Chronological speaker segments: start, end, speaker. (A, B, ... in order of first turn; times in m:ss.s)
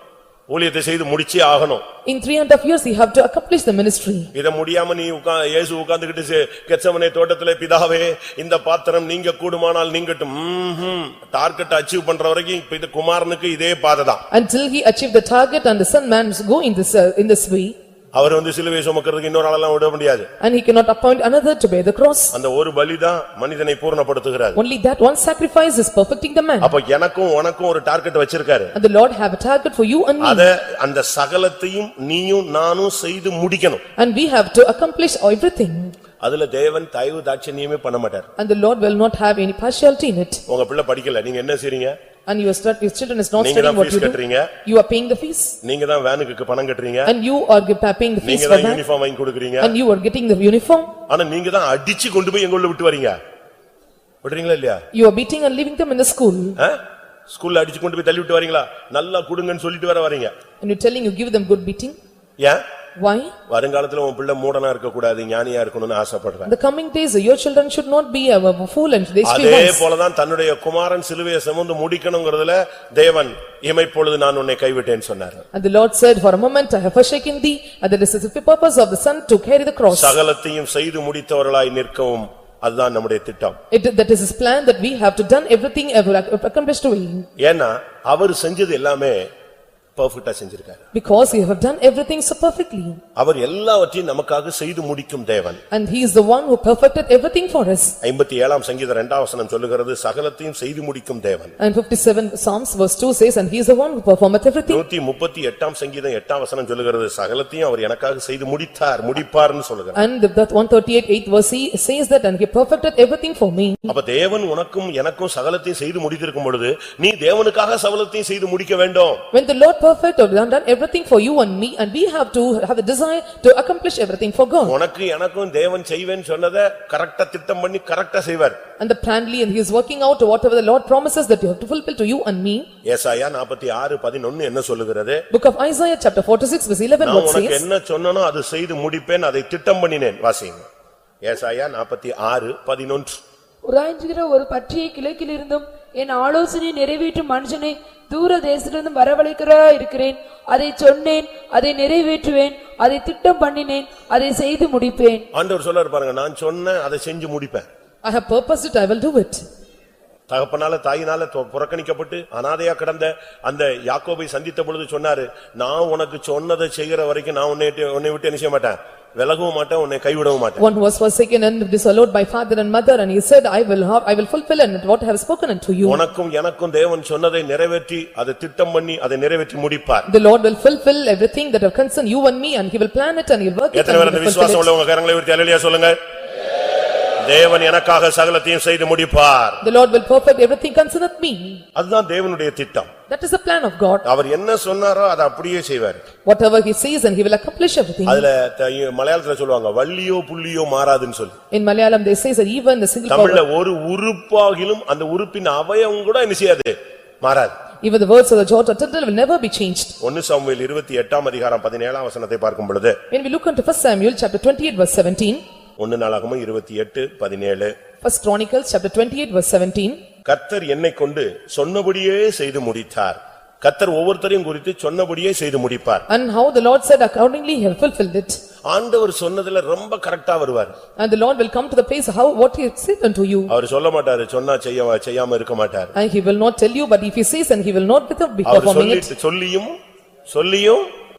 0:00.5-0:01.8 A
0:02.1-0:04.3 B
0:04.3-0:14.2 A
0:14.3-0:17.8 B
0:18.2-0:20.3 A
0:20.4-0:22.4 B
0:22.3-0:24.6 A
0:24.6-0:26.7 B
0:26.6-0:28.7 A
0:28.8-0:30.5 B
0:30.2-0:33.8 A
0:34.0-0:35.9 B
0:36.2-0:38.3 A
0:38.4-0:40.4 B
0:40.5-0:42.0 A
0:42.3-0:45.6 B
0:43.4-0:44.5 A
0:45.6-0:47.1 A
0:47.1-0:48.8 B
0:48.2-0:49.8 A
0:49.6-0:50.9 B
0:51.1-0:53.2 A
0:54.2-0:54.8 A
0:54.9-0:56.6 B
0:56.6-1:00.3 A
1:00.6-1:02.0 B
1:03.0-1:03.4 B
1:03.5-1:06.5 A
1:06.5-1:09.8 B
1:09.2-1:15.4 A
1:15.5-1:20.2 B
1:19.9-1:23.6 A
1:23.7-1:27.3 B
1:27.4-1:29.3 A
1:30.0-1:30.8 A
1:30.9-1:33.0 B
1:33.2-1:35.6 A
1:35.7-1:38.0 B
1:38.0-1:41.6 A
1:41.6-1:44.8 B
1:44.7-1:50.0 A
1:50.0-1:53.9 B
1:53.9-1:59.2 A
1:59.3-2:04.8 B
2:04.6-2:08.6 A
2:08.8-2:12.7 B
2:12.8-2:15.2 A
2:15.3-2:17.6 B
2:17.0-2:20.7 A
2:21.2-2:23.2 A
2:23.6-2:35.2 C
2:35.3-2:37.7 A
2:38.0-2:39.4 B
2:40.3-2:50.6 A
2:50.6-2:56.0 B
2:55.8-3:00.1 A
3:00.1-3:04.7 B
3:03.7-3:06.0 A
3:07.2-3:09.6 A
3:09.6-3:11.6 B
3:11.8-3:12.9 A
3:13.1-3:14.0 B
3:14.0-3:16.0 A
3:16.2-3:18.2 B
3:18.1-3:21.4 A
3:21.5-3:23.4 B
3:23.1-3:27.6 A
3:27.8-3:30.0 B
3:30.0-3:33.0 A
3:33.1-3:35.4 B
3:35.8-3:37.7 A
3:38.0-3:40.0 B
3:40.3-3:46.1 A
3:46.1-3:48.4 B
3:48.7-3:50.8 A
3:51.0-3:53.5 B
3:53.5-3:55.9 A
3:56.0-3:59.1 B
3:58.4-3:59.7 A
4:00.3-4:00.9 A